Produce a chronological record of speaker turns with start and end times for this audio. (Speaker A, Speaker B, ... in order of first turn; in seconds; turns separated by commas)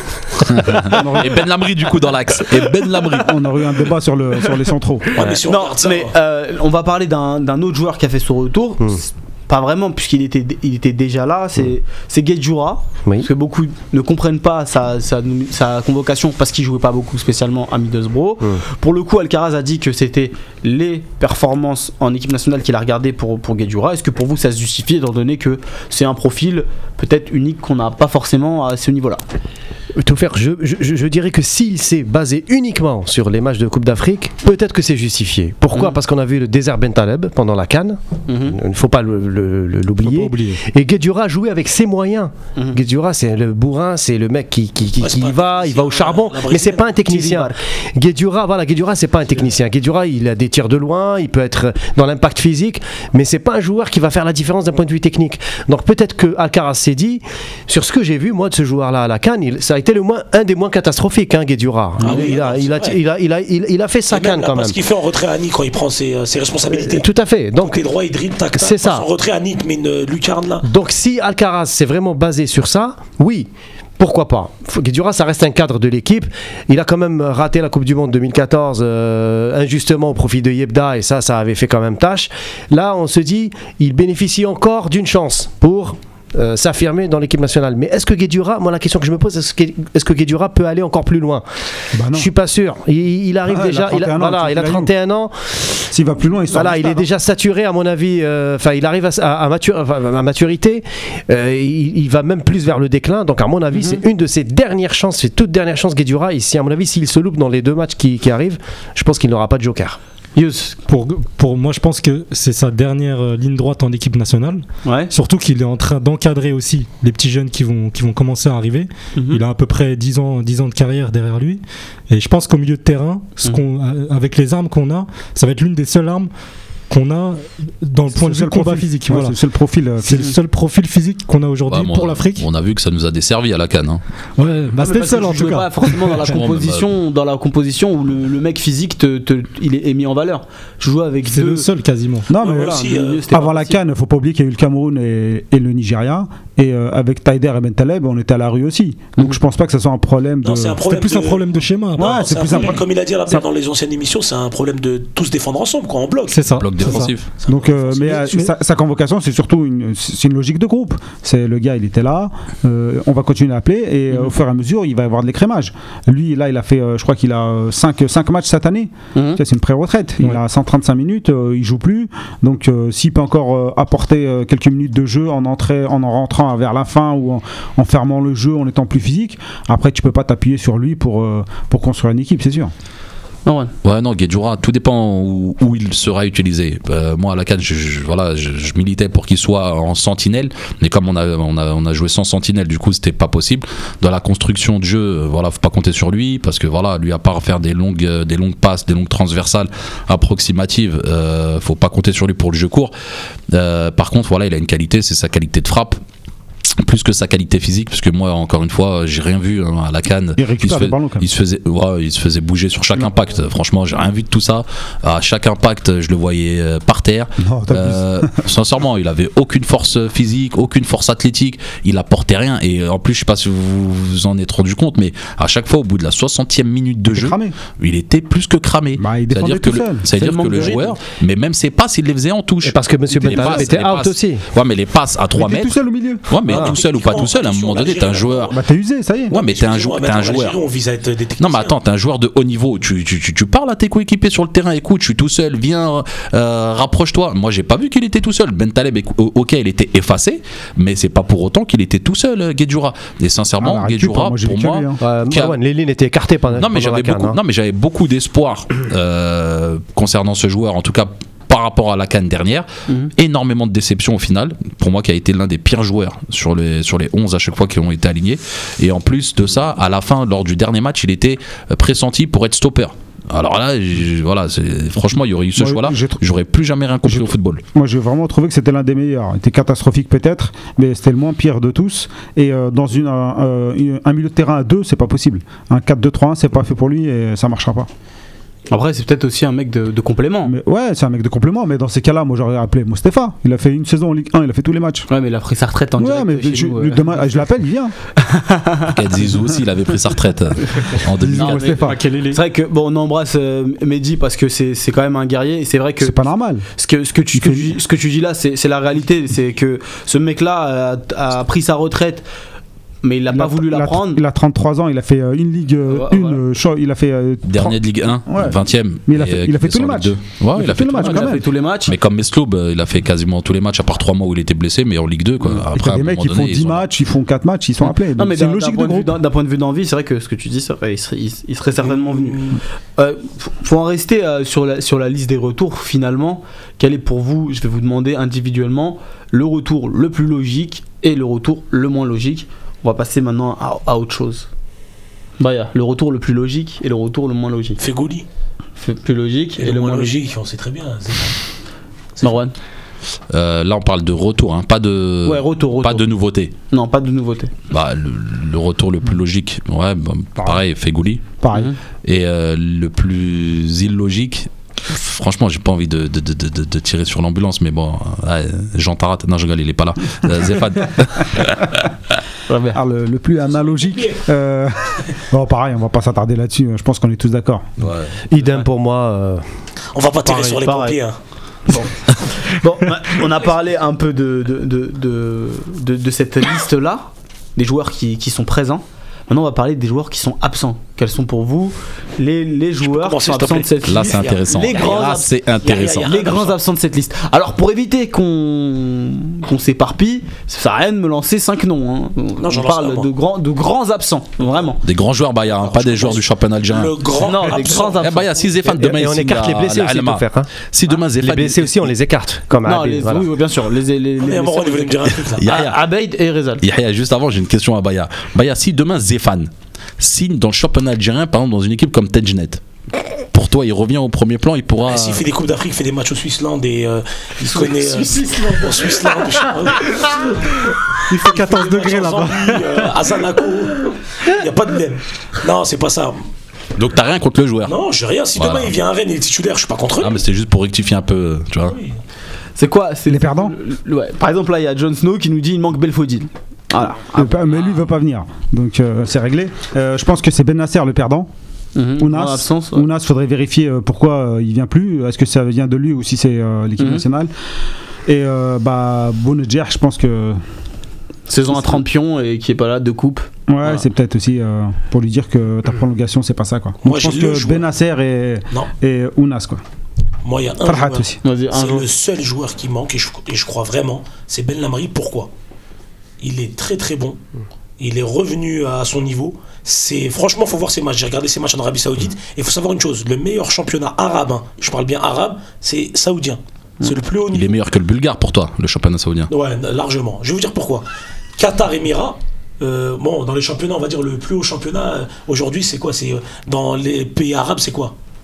Speaker A: 0.4-3.6, Speaker B: 0.9-1.4, Speaker B: 3.1-5.1, Speaker C: 5.1-6.1, Speaker D: 5.2-5.4, Speaker E: 5.5-29.2, Speaker D: 30.0-64.8, Speaker E: 35.7-36.0, Speaker E: 38.3-38.6, Speaker F: 40.0-40.6, Speaker C: 45.0-46.8, Speaker E: 47.0-47.6, Speaker C: 62.0-63.0, Speaker C: 64.1-67.1, Speaker D: 66.7-67.8, Speaker C: 67.6-70.7, Speaker D: 68.6-69.1, Speaker D: 70.6-91.5, Speaker B: 91.9-92.3, Speaker D: 92.1-95.7, Speaker B: 93.5-94.9, Speaker B: 95.9-97.1, Speaker D: 96.5-110.0, Speaker E: 103.7-104.0, Speaker E: 110.3-110.8, Speaker F: 110.8-126.3, Speaker E: 114.8-115.1, Speaker E: 119.2-119.4, Speaker F: 126.9-129.4, Speaker B: 128.1-130.3, Speaker F: 130.0-132.5, Speaker A: 131.7-134.0, Speaker F: 134.4-136.3, Speaker E: 134.8-141.7, Speaker A: 136.3-136.9, Speaker F: 141.3-142.3, Speaker B: 142.3-150.9, Speaker C: 142.4-143.2, Speaker E: 142.5-143.8, Speaker C: 150.4-156.5, Speaker F: 150.9-152.8, Speaker B: 152.0-153.4, Speaker F: 156.3-157.2, Speaker A: 156.6-157.3, Speaker C: 157.4-158.0, Speaker B: 157.5-182.7, Speaker F: 158.0-158.5, Speaker E: 169.2-169.4, Speaker E: 183.5-183.7, Speaker A: 183.8-202.9, Speaker A: 203.5-206.0, Speaker A: 206.8-238.5, Speaker B: 210.4-211.3, Speaker B: 217.4-218.3, Speaker B: 227.1-227.5, Speaker B: 229.0-230.1, Speaker E: 230.1-231.0, Speaker D: 232.6-234.4, Speaker B: 233.2-233.7, Speaker B: 235.4-236.6, Speaker C: 236.5-238.6, Speaker B: 238.5-239.3, Speaker A: 239.3-240.6, Speaker C: 239.3-241.8, Speaker A: 241.4-255.6, Speaker B: 253.6-255.0, Speaker D: 255.0-257.4, Speaker A: 256.6-277.6, Speaker B: 275.6-276.2, Speaker B: 277.1-287.9, Speaker E: 288.7-290.5, Speaker B: 290.4-295.1, Speaker E: 295.1-297.2, Speaker B: 296.0-297.9, Speaker E: 298.2-298.9, Speaker A: 298.9-301.7, Speaker B: 301.2-302.0, Speaker F: 301.3-302.4, Speaker E: 302.3-312.2, Speaker B: 306.0-306.7, Speaker B: 307.3-307.7, Speaker E: 313.0-314.2, Speaker B: 313.3-321.4, Speaker E: 315.9-316.4, Speaker A: 317.5-326.9, Speaker E: 321.0-321.9, Speaker B: 325.7-329.1, Speaker E: 327.8-332.4, Speaker C: 331.8-332.6, Speaker E: 333.0-344.5, Speaker E: 345.4-347.8, Speaker C: 347.8-348.3, Speaker E: 348.8-350.3, Speaker C: 349.6-351.4, Speaker E: 352.2-352.5, Speaker A: 353.3-356.5, Speaker E: 355.3-356.1, Speaker E: 356.7-357.5, Speaker A: 357.7-361.2, Speaker B: 361.4-361.7, Speaker A: 362.1-371.9, Speaker E: 372.5-372.8, Speaker B: 372.7-377.7, Speaker C: 373.4-374.2, Speaker A: 377.8-378.2, Speaker D: 378.3-379.4, Speaker C: 379.9-381.2, Speaker E: 380.3-381.0, Speaker E: 381.7-395.3, Speaker C: 392.8-396.6, Speaker A: 393.8-396.1, Speaker E: 395.8-404.8, Speaker C: 402.4-403.1, Speaker A: 404.8-406.9, Speaker C: 405.5-408.1, Speaker E: 407.1-408.7, Speaker A: 407.4-411.9, Speaker D: 408.8-410.5, Speaker D: 411.2-413.3, Speaker E: 412.6-416.6, Speaker C: 414.2-415.5, Speaker A: 415.4-415.8, Speaker A: 416.6-422.6, Speaker A: 423.3-425.2, Speaker C: 424.9-430.3, Speaker E: 427.5-428.5, Speaker B: 431.1-432.9, Speaker C: 431.2-436.2, Speaker A: 436.8-437.8, Speaker C: 437.7-440.2, Speaker A: 438.4-438.7, Speaker A: 440.0-441.8, Speaker C: 441.7-441.9, Speaker E: 442.6-447.4, Speaker B: 443.1-443.6, Speaker B: 447.1-451.3, Speaker A: 447.6-447.8, Speaker E: 451.8-452.9, Speaker B: 452.0-457.3, Speaker E: 456.8-457.0, Speaker B: 458.1-460.4, Speaker E: 461.3-463.8, Speaker B: 463.5-469.6, Speaker C: 466.8-467.7, Speaker C: 470.2-475.3, Speaker B: 470.6-471.2, Speaker E: 471.2-471.9, Speaker C: 476.2-477.2, Speaker C: 477.8-487.5, Speaker A: 487.3-489.3, Speaker C: 489.3-490.9, Speaker C: 491.4-497.9